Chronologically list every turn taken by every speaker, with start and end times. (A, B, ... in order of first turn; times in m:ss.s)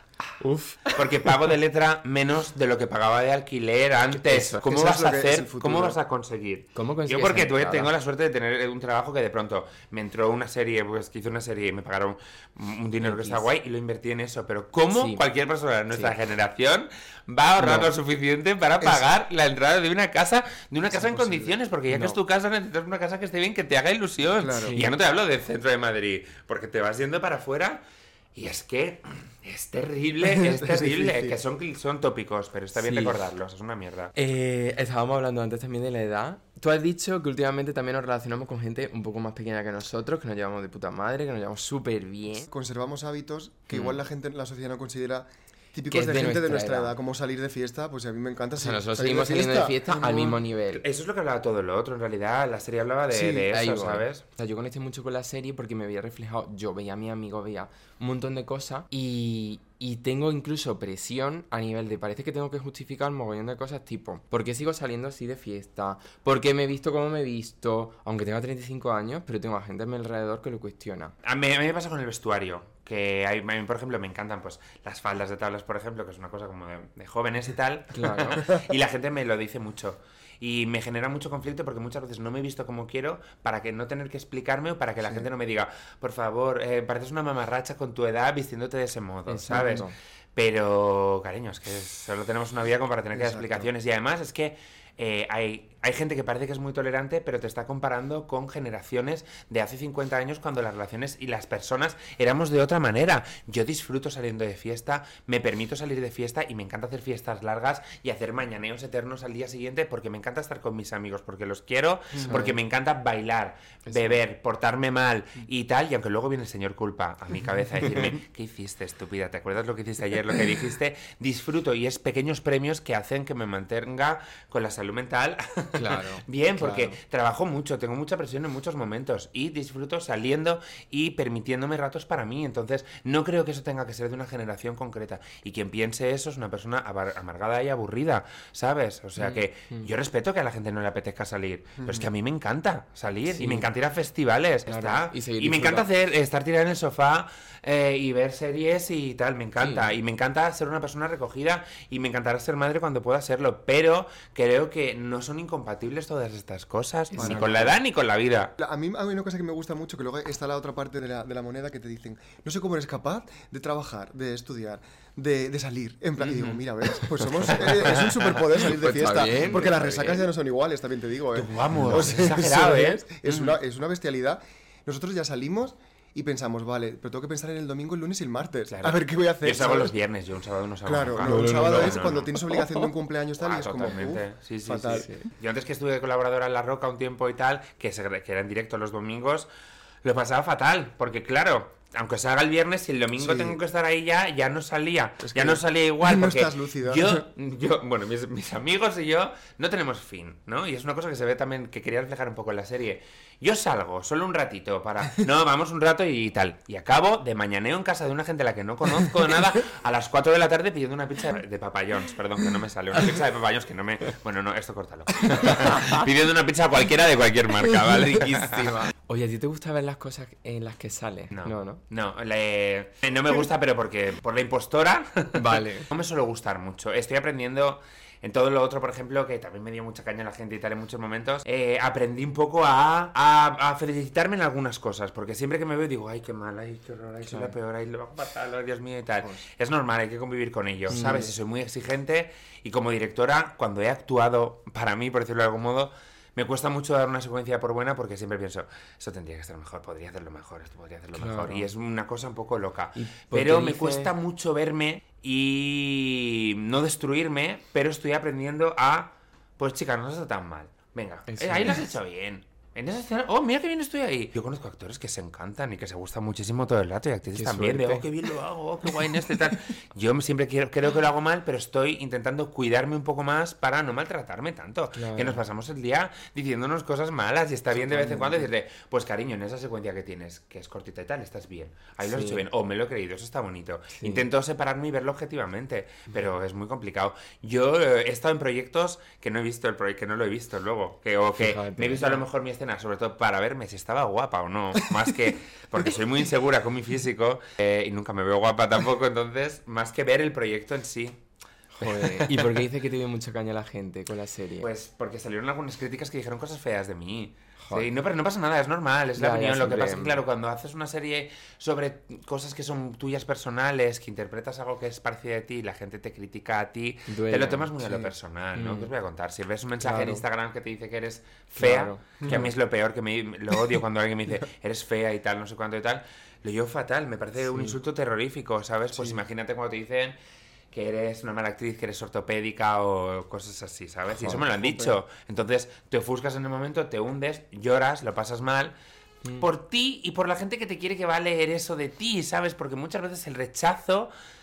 0:00.4-0:01.5 A
0:00.9-0:27.8 B
0:04.1-0:04.6 A
0:04.6-0:06.0 C
0:06.7-0:07.9 A
0:13.0-0:13.4 A
0:14.9-0:15.2 A
0:15.9-0:16.2 A
0:17.6-0:17.9 A
0:20.9-0:21.5 C
0:21.9-0:22.2 A
0:24.4-0:24.8 C
0:24.6-0:24.9 A
0:28.3-0:34.1 B
0:30.2-0:31.4 C
0:32.8-0:33.2 A
0:34.2-0:42.5 A
0:42.5-0:49.8 C
0:43.7-0:44.0 A
0:45.9-0:46.9 A
0:48.6-0:50.8 A
0:50.0-0:54.2 B
0:53.1-0:53.5 C
0:53.5-1:11.1 A
1:11.2-2:38.5 B
1:17.9-1:18.5 A
1:29.3-1:29.9 A
1:29.5-1:29.8 C
1:33.1-1:33.7 C
1:52.1-1:52.4 C
1:52.2-1:52.6 A
1:53.8-1:54.2 A
2:05.7-2:07.0 A
2:19.2-2:19.9 A
2:23.3-2:23.6 A
2:24.7-2:25.9 A
2:29.6-2:29.9 A
2:37.1-2:37.7 A
2:37.2-2:37.8 C
2:38.6-2:59.9 C
2:46.2-2:46.6 B
2:47.4-2:48.5 B
2:48.6-2:50.3 A
2:51.3-2:53.6 B
2:58.7-3:02.3 B
3:00.8-3:05.1 C
3:01.2-3:02.0 A
3:03.4-3:09.5 B
3:04.9-3:05.2 A
3:10.0-3:38.8 B
3:13.2-3:13.6 C
3:15.2-3:17.2 C
3:35.3-3:36.0 A
3:37.7-3:41.8 A
3:41.3-5:01.2 B
3:45.3-3:45.9 A
4:00.9-4:01.3 A
4:11.1-4:11.7 A
4:13.0-4:14.1 A
4:21.3-4:21.8 A
4:27.3-4:28.0 A
4:34.9-4:35.4 A
4:37.8-4:38.4 A
4:42.0-4:42.4 A
4:43.9-4:44.2 A
4:51.4-4:52.2 A
5:01.7-5:04.7 A
5:01.8-5:02.6 B
5:04.6-5:30.1 B
5:07.6-5:07.9 A
5:09.2-5:10.2 A
5:17.1-5:17.7 A
5:18.5-5:18.9 A
5:19.8-5:20.2 A
5:21.5-5:22.5 A
5:22.2-5:22.5 C
5:27.4-5:27.7 A
5:29.0-5:29.2 C
5:30.7-5:38.7 B
5:34.2-5:34.4 A
5:34.2-5:35.0 C
5:39.4-5:44.1 B